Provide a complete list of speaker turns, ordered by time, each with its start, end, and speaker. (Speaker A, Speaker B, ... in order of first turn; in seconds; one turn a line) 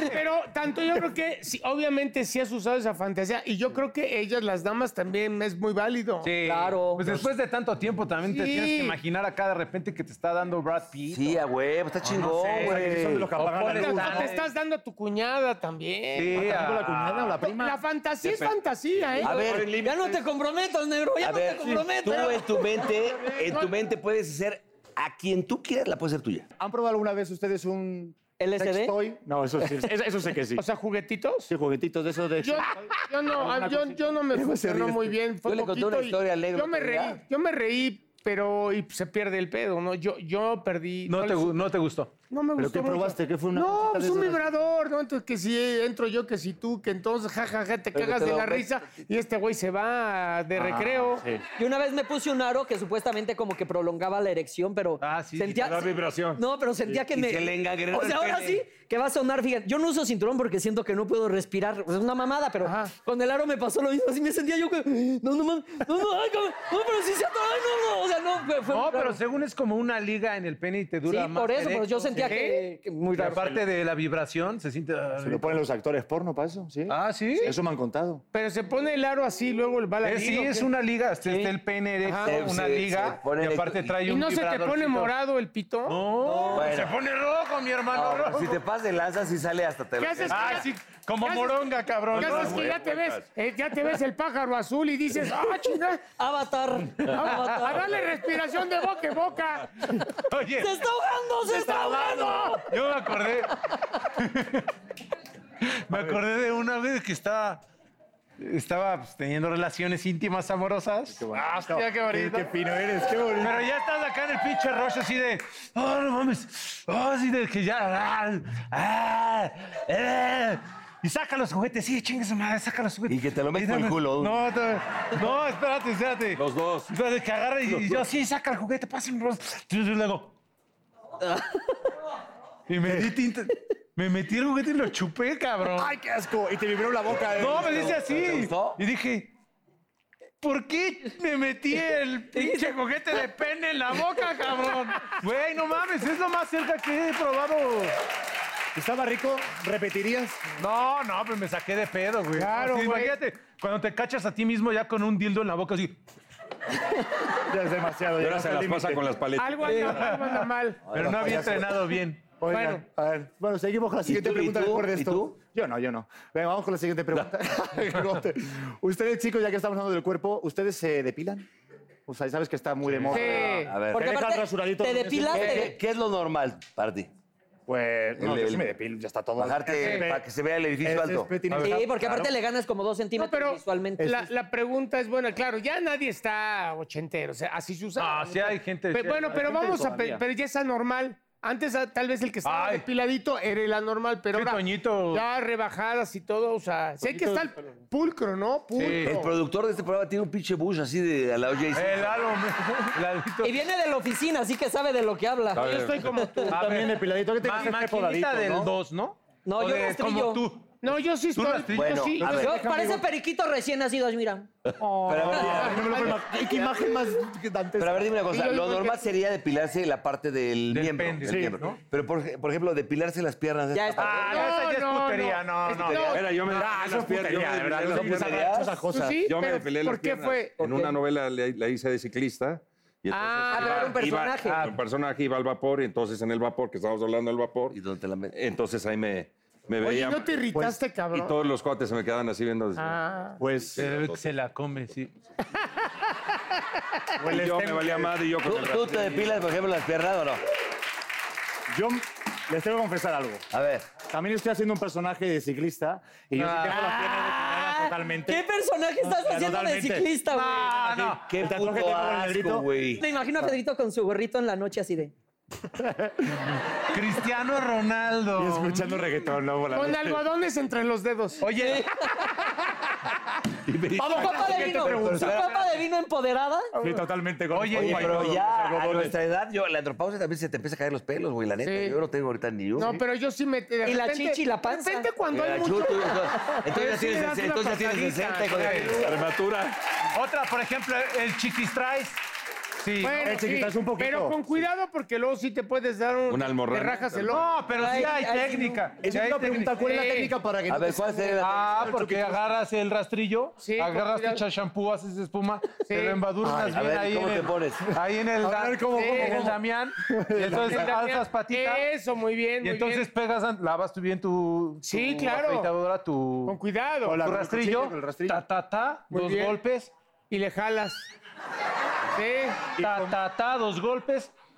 Speaker A: 0.1-6.3
Speaker B: 6.2-11.4
Speaker C: 6.4-7.3
Speaker A: 8.2-9.0
Speaker D: 11.1-13.3
Speaker B: 12.0-14.5
Speaker E: 12.5-14.3
Speaker A: 13.7-16.4
Speaker B: 16.1-17.4
Speaker E: 16.3-17.8
Speaker A: 17.4-19.4
Speaker F: 18.2-20.2
Speaker D: 19.2-19.8
Speaker C: 19.8-22.6
Speaker D: 21.2-26.5
Speaker A: 23.3-23.7
Speaker E: 26.6-30.6
Speaker C: 28.4-28.9
Speaker A: 30.6-31.5
Speaker E: 31.5-35.1
Speaker A: 32.4-41.5
Speaker D: 34.7-37.2
Speaker B: 41.1-42.1
Speaker A: 42.3-51.2
Speaker E: 42.6-44.5
Speaker D: 47.9-48.8
Speaker B: 50.6-50.9
Speaker E: 50.7-51.1
Speaker C: 51.6-69.2
Speaker B: 55.0-55.6
Speaker F: 55.5-56.4
Speaker D: 57.1-58.6
Speaker A: 62.6-62.9
Speaker B: 68.7-72.4
Speaker C: 71.0-73.6
Speaker A: 72.3-72.6
Speaker B: 73.2-75.6
Speaker E: 75.2-78.2
Speaker B: 76.9-77.6
Speaker A: 78.3-80.7
Speaker B: 80.0-85.1
Speaker D: 81.3-81.5
Speaker A: 82.0-82.3
Speaker D: 82.2-83.9
Speaker A: 84.0-86.0
Speaker B: 85.9-88.6
Speaker C: 86.2-86.7
Speaker D: 86.5-87.0
Speaker D: 87.9-90.6
Speaker A: 90.0-90.7
Speaker B: 90.3-92.8
Speaker A: 91.2-96.0
Speaker F: 92.1-93.3
Speaker C: 96.2-98.0
Speaker B: 97.0-97.7
Speaker A: 97.1-99.7
Speaker B: 99.9-100.8
Speaker C: 100.0-102.7
Speaker A: 101.5-102.6
Speaker B: 102.7-103.5
Speaker B: 104.2-104.7
Speaker B: 105.9-107.6
Speaker E: 105.9-106.2
Speaker B: 108.4-112.5
Speaker E: 111.1-113.7
Speaker B: 113.4-130.3
Speaker D: 123.1-124.4
Speaker F: 126.3-126.9
Speaker F: 127.7-128.0
Speaker C: 131.3-131.7
Speaker B: 132.7-135.9
Speaker E: 135.7-138.1
Speaker B: 137.3-139.3
Speaker D: 138.0-138.8
Speaker B: 140.4-148.0
Speaker C: 142.3-142.8
Speaker E: 148.8-150.4
Speaker B: 150.6-156.0
Speaker A: 152.4-153.2
Speaker E: 157.4-159.2
Speaker F: 158.2-160.0
Speaker A: 159.4-161.0
Speaker B: 159.7-162.4
Speaker D: 160.9-161.6
Speaker E: 161.0-161.9
Speaker E: 162.4-171.5
Speaker A: 162.5-162.8
Speaker D: 164.1-165.4
Speaker E: 172.1-175.8
Speaker B: 172.9-173.5
Speaker D: 173.1-174.1
Speaker A: 173.1-173.8
Speaker C: 174.0-175.8
Speaker D: 175.3-177.1
Speaker E: 177.7-180.2
Speaker D: 178.2-178.7
Speaker D: 179.4-181.4
Speaker A: 179.8-180.1
Speaker E: 180.8-182.3
Speaker B: 181.4-181.9
Speaker C: 181.6-184.3
Speaker A: 183.2-199.4
Speaker B: 188.0-189.9
Speaker E: 189.3-190.2
Speaker B: 192.4-192.9
Speaker B: 194.3-195.3
Speaker E: 197.0-197.7
Speaker B: 198.8-199.1
Speaker D: 199.0-202.2
Speaker B: 201.7-203.6
Speaker C: 203.4-206.5
Speaker F: 205.5-206.1
Speaker A: 205.6-206.6
Speaker B: 206.5-212.6
Speaker E: 206.5-208.7
Speaker C: 209.4-210.5
Speaker A: 210.8-212.2
Speaker D: 211.7-212.5
Speaker E: 212.2-213.0
Speaker C: 212.3-214.5
Speaker E: 214.8-218.2
Speaker D: 215.0-216.6
Speaker D: 217.8-224.5
Speaker A: 218.3-219.1
Speaker B: 220.7-221.8
Speaker E: 221.2-221.6
Speaker C: 223.7-224.5
Speaker B: 224.0-226.8
Speaker A: 224.3-226.4
Speaker D: 225.8-226.2
Speaker F: 226.1-228.4
Speaker E: 226.4-229.3
Speaker D: 227.9-228.8
Speaker A: 228.9-230.6
Speaker F: 229.2-237.8
Speaker C: 230.6-230.9
Speaker A: 233.1-234.0
Speaker C: 233.5-234.7
Speaker B: 234.4-234.8
Speaker D: 237.7-238.3
Speaker F: 238.3-240.3
Speaker A: 239.8-241.3
Speaker E: 240.5-240.8
Speaker F: 241.1-244.3
Speaker A: 242.8-243.4
Speaker E: 243.4-243.9
Speaker B: 243.8-245.2
Speaker E: 247.2-248.2
Speaker F: 247.2-249.4
Speaker D: 248.4-250.4
Speaker E: 251.7-253.4
Speaker D: 253.5-253.9
Speaker E: 254.0-258.4
Speaker B: 256.4-256.9
Speaker C: 256.6-260.7
Speaker E: 259.0-260.1
Speaker B: 260.3-261.3
Speaker E: 260.7-262.7
Speaker D: 261.3-263.0
Speaker C: 263.0-265.1
Speaker E: 265.8-266.1
Speaker B: 266.9-269.0
Speaker E: 268.3-270.1
Speaker A: 269.7-271.7
Speaker F: 269.7-270.0
Speaker B: 271.4-272.0
Speaker C: 271.6-272.2
Speaker D: 273.7-275.6
Speaker E: 273.9-275.6
Speaker C: 274.1-276.7
Speaker E: 276.8-279.2
Speaker B: 277.5-278.4
Speaker D: 277.7-283.1
Speaker A: 281.6-282.0
Speaker A: 282.8-289.1
Speaker C: 283.8-285.1
Speaker D: 285.3-289.1
Speaker B: 288.5-289.0
Speaker F: 289.0-289.8
Speaker B: 290.1-292.2
Speaker B: 292.8-293.4
Speaker A: 293.0-297.5
Speaker E: 293.2-294.4
Speaker F: 296.3-297.4
Speaker B: 297.3-300.2
Speaker C: 297.7-298.8
Speaker E: 299.0-302.4
Speaker D: 300.7-301.9
Speaker B: 301.4-311.9
Speaker A: 303.6-304.4
Speaker A: 305.9-306.2
Speaker E: 306.4-306.8
Speaker D: 306.7-307.9
Speaker E: 308.4-311.0
Speaker A: 308.9-309.5
Speaker A: 310.6-313.1
Speaker B: 312.6-316.6
Speaker A: 314.9-315.7
Speaker A: 316.5-317.2
Speaker E: 317.1-318.4
Speaker B: 317.1-319.9
Speaker A: 319.1-319.6
Speaker A: 320.3-321.1
Speaker A: 322.2-322.7
Speaker B: 322.8-324.3
Speaker E: 322.8-323.2